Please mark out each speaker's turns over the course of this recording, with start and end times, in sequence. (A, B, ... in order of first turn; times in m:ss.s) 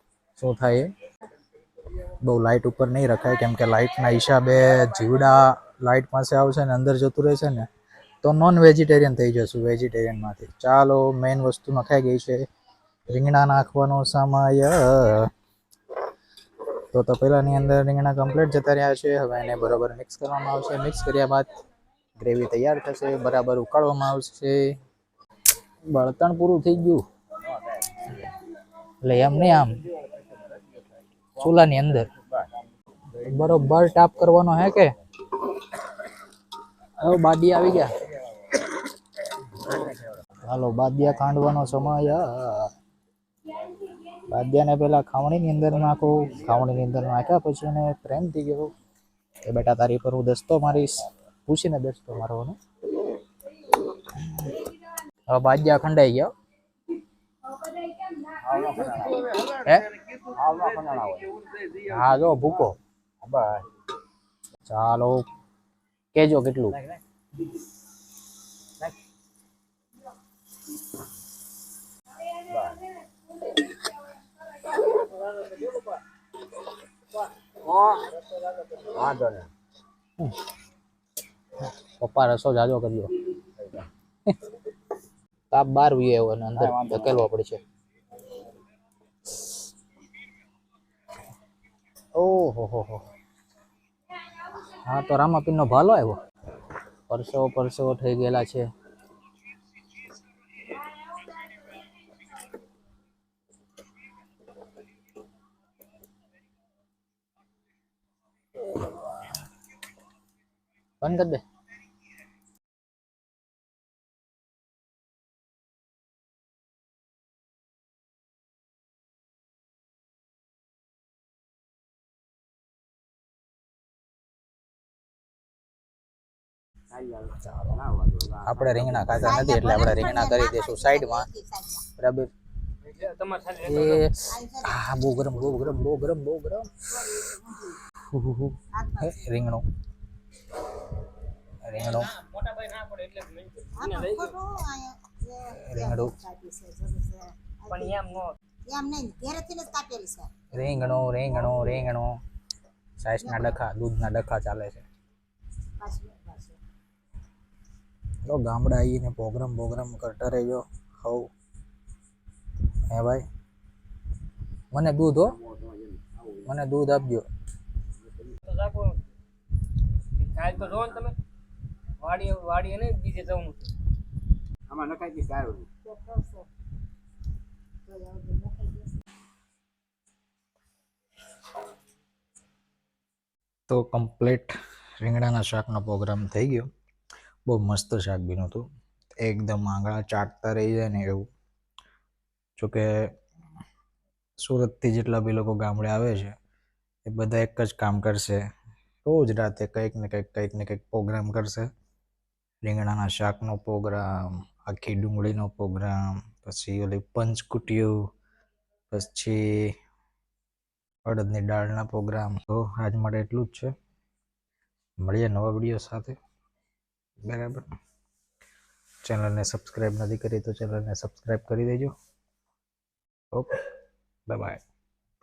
0:00.4-0:00.9 A
0:02.2-0:07.7 A
0:08.2-0:12.4 A
0:13.1-0:15.3 A
0:16.9-0:21.5 A
0:22.2-0:24.8 A
0:25.9-0:27.0 A
0:29.0-0:29.8 A
0:31.4-0:32.1 A
0:33.1-0:34.9 A
0:37.0-0:37.9 A
0:40.4-0:42.7 A
0:44.3-0:48.7 A
0:49.4-0:52.6 A
0:55.3-0:56.3 A
0:58.3-0:59.3 B
0:59.5-0:59.9 A
1:00.2-1:01.5 B
1:01.8-1:02.7 A
1:03.2-1:03.6 B
1:04.6-1:05.2 A
1:06.1-1:06.8 A
1:12.4-1:12.8 B
1:17.6-1:19.5 B
1:22.0-1:23.3 A
1:23.6-1:23.8 B
1:25.5-1:27.6 A
1:26.6-1:27.2 B
1:32.1-1:33.0 A
1:34.7-1:36.2 A
1:37.1-1:38.6 A
1:51.0-1:51.4 A
2:06.9-2:09.4 B
2:08.4-2:11.3 A
2:09.3-2:11.8 C
2:12.0-2:12.3 A
2:12.8-2:14.1 D
2:13.6-2:17.2 A
2:14.3-2:15.0 C
2:17.1-2:17.8 C
2:18.0-2:19.6 A
2:18.7-2:19.1 C
2:21.6-2:22.1 A
2:21.8-2:24.3 D
2:23.8-2:27.9 C
2:25.5-2:26.2 A
2:27.7-2:28.3 D
2:28.7-2:30.4 C
2:30.5-2:32.1 A
2:33.0-2:34.8 A
2:35.8-2:36.6 C
2:38.2-2:41.3 A
2:42.9-2:43.2 A
2:44.7-2:45.3 A
2:45.3-2:46.5 B
2:46.4-2:47.2 A
2:48.0-2:48.4 B
2:48.4-2:49.1 D
2:50.1-2:51.2 D
2:52.0-2:53.7 D
2:54.7-2:55.7 B
2:55.8-2:56.5 C
2:57.9-2:58.9 C
3:03.7-3:06.7 A
3:07.4-3:08.6 A
3:09.2-3:11.3 A
3:12.6-3:13.1 A
3:14.4-3:16.3 A
3:17.0-3:18.4 A
3:19.0-3:21.7 A
3:22.6-3:28.0 A
3:28.9-3:29.7 A
3:31.0-3:33.7 A
3:35.0-3:36.2 A
3:37.2-3:37.7 A
3:39.0-3:41.9 A
3:44.3-3:44.6 A